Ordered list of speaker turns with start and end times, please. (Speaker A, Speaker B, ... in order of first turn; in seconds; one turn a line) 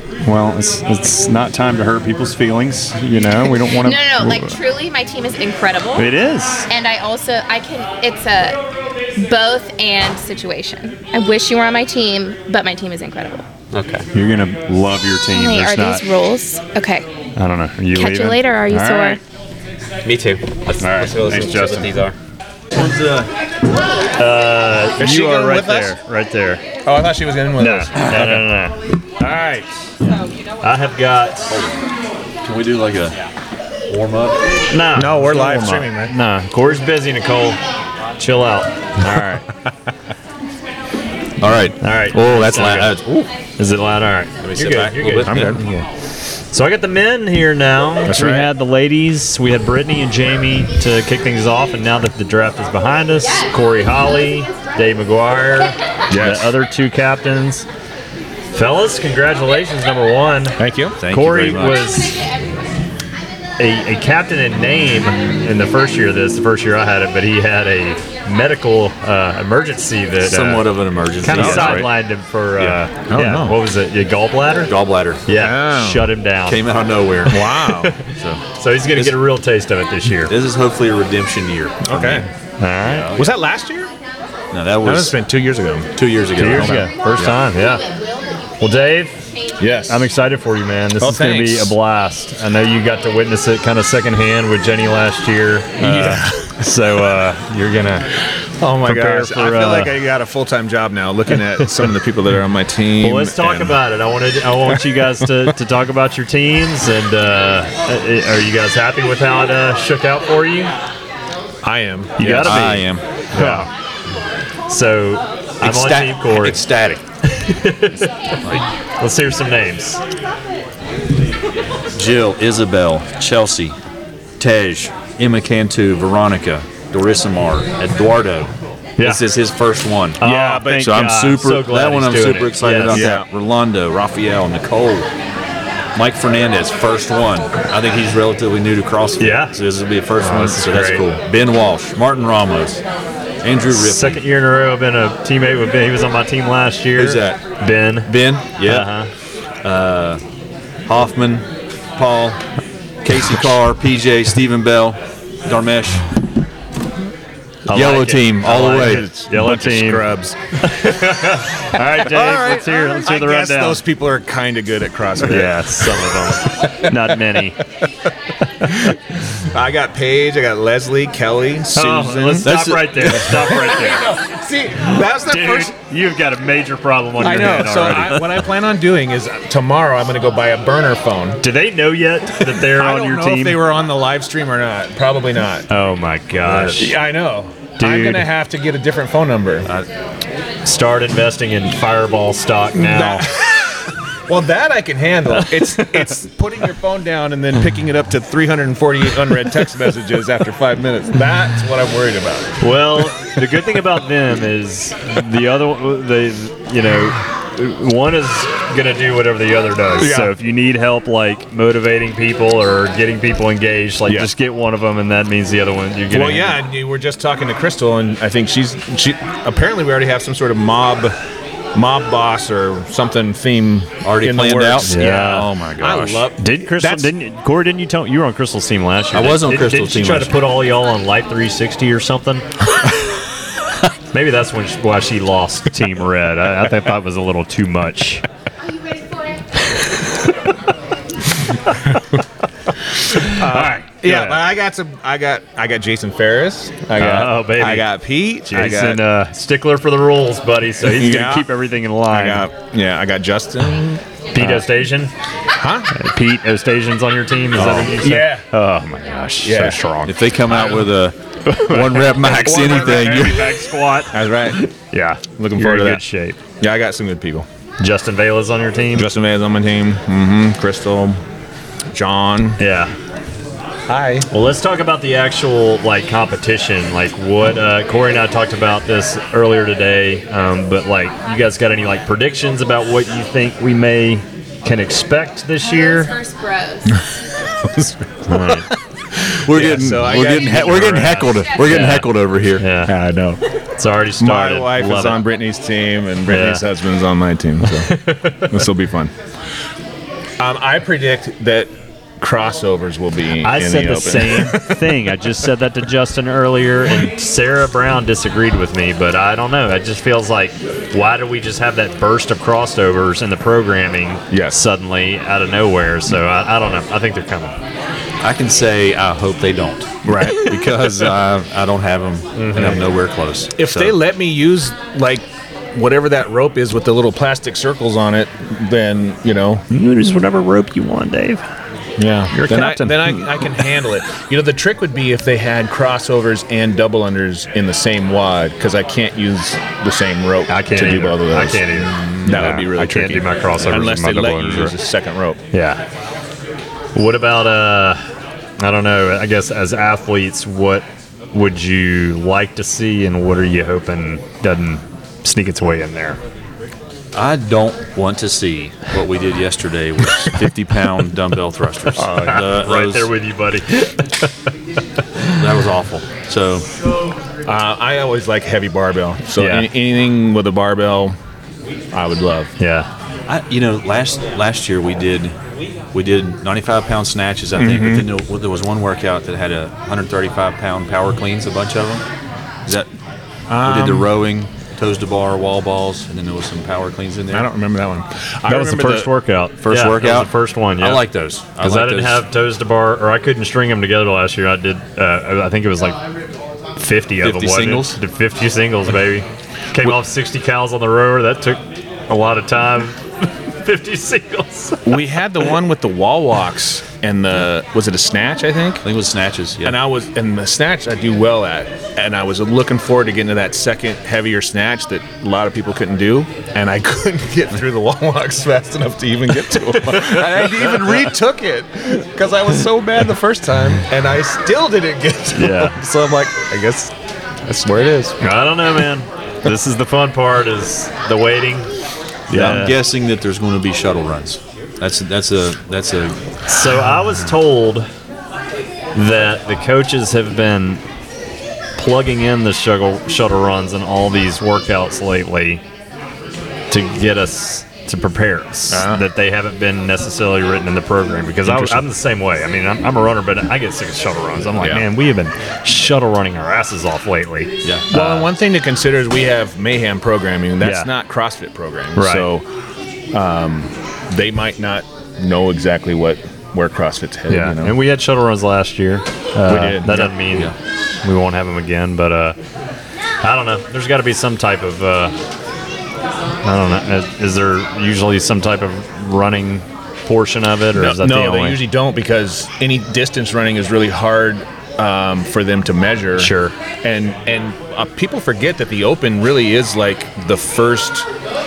Speaker A: 0.2-4.6
Speaker B: 3.8-6.1
Speaker A: 6.0-6.7
Speaker B: 6.7-8.6
Speaker B: 9.2-13.4
Speaker C: 13.7-14.1
Speaker A: 14.1-16.0
Speaker B: 15.3-17.1
Speaker A: 17.4-19.2
Speaker B: 17.9-19.2
Speaker C: 20.0-22.2
Speaker A: 20.8-22.0
Speaker D: 22.7-23.3
Speaker A: 24.2-26.6
Speaker E: 25.0-26.0
Speaker E: 26.9-28.5
Speaker A: 27.6-31.6
Speaker D: 31.5-31.8
Speaker D: 32.4-33.2
Speaker D: 33.9-34.7
Speaker A: 34.7-37.6
Speaker E: 34.9-36.1
Speaker A: 38.2-39.5
Speaker D: 41.4-43.3
Speaker A: 41.8-43.0
Speaker A: 43.6-45.8
Speaker D: 44.4-45.6
Speaker E: 45.3-45.6
Speaker A: 46.5-57.7
Speaker E: 48.1-48.5
Speaker E: 56.1-56.5
Speaker A: 58.5-62.2
Speaker E: 60.6-61.0
Speaker D: 61.0-61.9
Speaker A: 63.6-74.7
Speaker D: 70.2-71.9
Speaker E: 71.4-71.8
Speaker E: 73.1-73.6
Speaker D: 74.7-75.3
Speaker A: 75.3-76.7
Speaker E: 75.3-76.1
Speaker D: 76.5-77.5
Speaker A: 77.3-80.3
Speaker E: 77.3-78.1
Speaker D: 78.0-78.4
Speaker D: 80.2-82.2
Speaker E: 81.9-82.3
Speaker A: 82.0-83.1
Speaker D: 82.8-83.3
Speaker E: 83.2-83.9
Speaker D: 84.5-85.2
Speaker E: 84.8-85.9
Speaker D: 85.9-87.4
Speaker A: 86.3-87.9
Speaker E: 86.5-86.8
Speaker A: 88.6-89.3
Speaker E: 89.6-90.0
Speaker A: 89.8-98.1
Speaker E: 91.0-91.7
Speaker E: 95.8-96.6
Speaker E: 98.6-103.8
Speaker A: 98.8-99.9
Speaker A: 101.6-101.9
Speaker A: 103.0-110.7
Speaker E: 111.6-112.6
Speaker A: 112.2-113.7
Speaker D: 112.2-113.0
Speaker E: 113.4-113.7
Speaker A: 114.7-116.6
Speaker D: 115.6-117.0
Speaker A: 117.2-120.0
Speaker D: 121.9-123.8
Speaker D: 124.4-130.2
Speaker A: 129.0-129.3
Speaker A: 130.2-133.2
Speaker E: 130.2-130.9
Speaker D: 130.8-135.1
Speaker E: 132.9-133.3
Speaker D: 135.9-142.8
Speaker A: 139.2-139.6
Speaker A: 140.2-141.2
Speaker D: 143.4-144.2
Speaker A: 143.7-149.1
Speaker D: 147.0-147.4
Speaker D: 148.1-148.9
Speaker D: 149.6-150.2
Speaker D: 150.9-152.4
Speaker D: 153.0-156.0
Speaker A: 157.7-160.1
Speaker D: 157.7-159.1
Speaker E: 158.7-160.4
Speaker A: 160.6-163.8
Speaker E: 161.9-167.0
Speaker A: 165.2-167.6
Speaker A: 168.6-169.0
Speaker E: 169.5-175.8
Speaker A: 171.7-174.2
Speaker D: 172.4-173.2
Speaker A: 174.8-178.5
Speaker E: 177.2-181.4
Speaker A: 181.4-183.6
Speaker E: 182.4-185.7
Speaker A: 185.7-187.0
Speaker D: 186.4-186.8
Speaker E: 186.7-189.7
Speaker A: 187.8-188.3
Speaker A: 190.7-193.3
Speaker E: 192.8-202.6
Speaker A: 195.3-196.1
Speaker A: 202.6-216.6
Speaker E: 210.0-210.3
Speaker E: 216.1-221.2
Speaker E: 221.7-227.1
Speaker D: 224.0-226.2
Speaker A: 224.8-232.5
Speaker D: 229.1-230.4
Speaker A: 234.1-238.2
Speaker A: 243.0-244.5
Speaker E: 243.2-249.0
Speaker A: 247.0-247.9
Speaker A: 248.5-252.5
Speaker E: 250.8-251.5
Speaker E: 252.1-254.7
Speaker A: 254.3-255.1
Speaker E: 255.6-255.9
Speaker A: 255.9-260.6
Speaker D: 257.6-258.0
Speaker E: 257.9-258.4
Speaker E: 259.4-259.8
Speaker D: 260.1-263.5
Speaker E: 260.5-260.9
Speaker A: 261.4-266.4
Speaker E: 262.3-263.6
Speaker E: 264.1-264.6
Speaker E: 265.3-266.0
Speaker E: 266.6-267.5
Speaker A: 267.8-269.1
Speaker E: 268.9-271.2
Speaker E: 271.9-272.6
Speaker A: 272.6-272.9
Speaker E: 273.9-274.3
Speaker A: 274.3-286.1
Speaker B: 285.6-286.9
Speaker E: 287.8-288.6
Speaker A: 288.3-288.7
Speaker D: 289.4-292.6
Speaker E: 289.5-291.5
Speaker A: 290.8-292.9
Speaker E: 292.9-293.4
Speaker A: 293.8-295.3
Speaker E: 294.2-297.9
Speaker A: 296.3-296.6
Speaker A: 297.6-298.7
Speaker E: 298.5-299.1
Speaker E: 300.4-304.9
Speaker A: 303.4-317.6
Speaker E: 314.3-314.6
Speaker D: 318.2-324.0
Speaker E: 320.1-320.6
Speaker A: 320.1-320.8
Speaker A: 322.4-322.8
Speaker E: 322.5-322.8
Speaker E: 323.6-329.6
Speaker A: 329.7-331.4
Speaker E: 332.0-345.4
Speaker A: 332.3-333.7
Speaker A: 340.5-344.8
Speaker A: 345.5-345.8
Speaker A: 346.9-348.0
Speaker A: 348.6-356.2
Speaker D: 357.1-363.1
Speaker A: 361.9-364.3
Speaker D: 365.3-366.6
Speaker E: 367.5-371.2
Speaker A: 369.4-369.7
Speaker E: 371.9-372.5
Speaker A: 372.6-372.9
Speaker D: 373.3-375.4
Speaker D: 375.9-382.0
Speaker E: 377.6-378.1
Speaker E: 383.5-384.2
Speaker D: 383.6-387.5
Speaker E: 387.3-389.1
Speaker A: 388.5-396.0
Speaker D: 389.6-392.2
Speaker A: 396.8-405.0
Speaker D: 397.2-398.0
Speaker E: 404.9-408.9
Speaker D: 408.8-409.8
Speaker E: 409.6-426.9
Speaker A: 419.5-421.1
Speaker A: 425.3-425.8
Speaker E: 427.4-428.2
Speaker A: 428.2-431.7
Speaker A: 432.3-432.8
Speaker D: 432.3-436.2
Speaker E: 432.3-432.6
Speaker A: 436.5-437.9
Speaker A: 438.9-440.8
Speaker A: 441.8-445.6
Speaker A: 446.7-458.3
Speaker E: 448.7-449.0
Speaker E: 451.5-451.7
Speaker E: 454.6-454.9
Speaker E: 457.9-462.4
Speaker A: 460.6-460.9
Speaker A: 462.0-462.3
Speaker E: 463.1-467.8
Speaker A: 467.3-472.4
Speaker E: 469.5-470.1
Speaker A: 473.2-475.2
Speaker A: 476.4-481.6
Speaker E: 480.7-491.1
Speaker A: 486.2-486.6